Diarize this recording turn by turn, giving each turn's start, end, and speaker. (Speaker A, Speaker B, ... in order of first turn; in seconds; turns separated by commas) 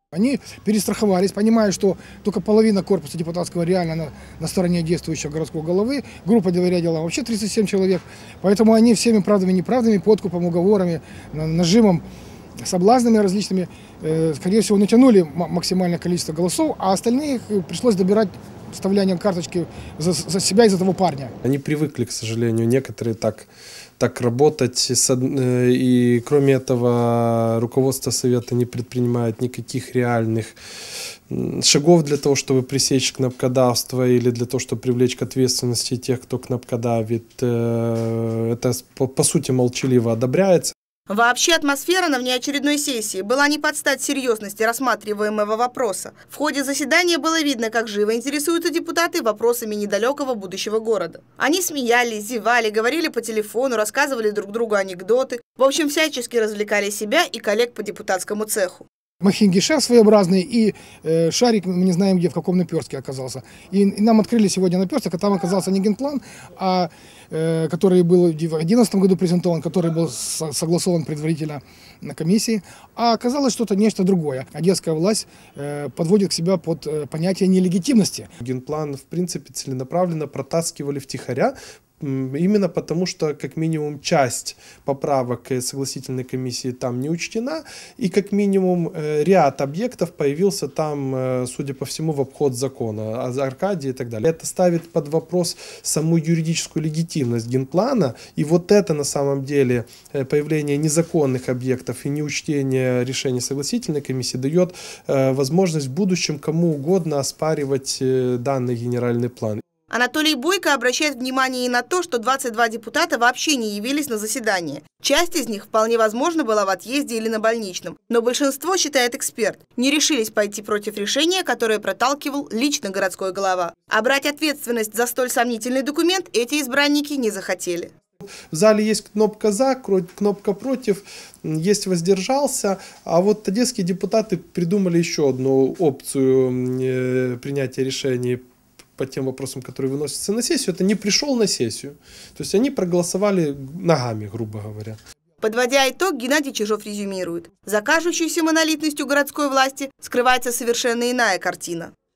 Speaker A: 0.1-12.0, Speaker A: 12.6-21.3, Speaker B: 21.4-23.5, Speaker B: 24.0-30.6, Speaker B: 31.3-40.7, Speaker C: 41.1-58.9, Speaker A: 59.2-78.3, Speaker B: 78.4-109.6, Speaker C: 109.9-127.9, Speaker B: 128.5-138.4, Speaker B: 139.0-145.0, Speaker C: 145.4-151.9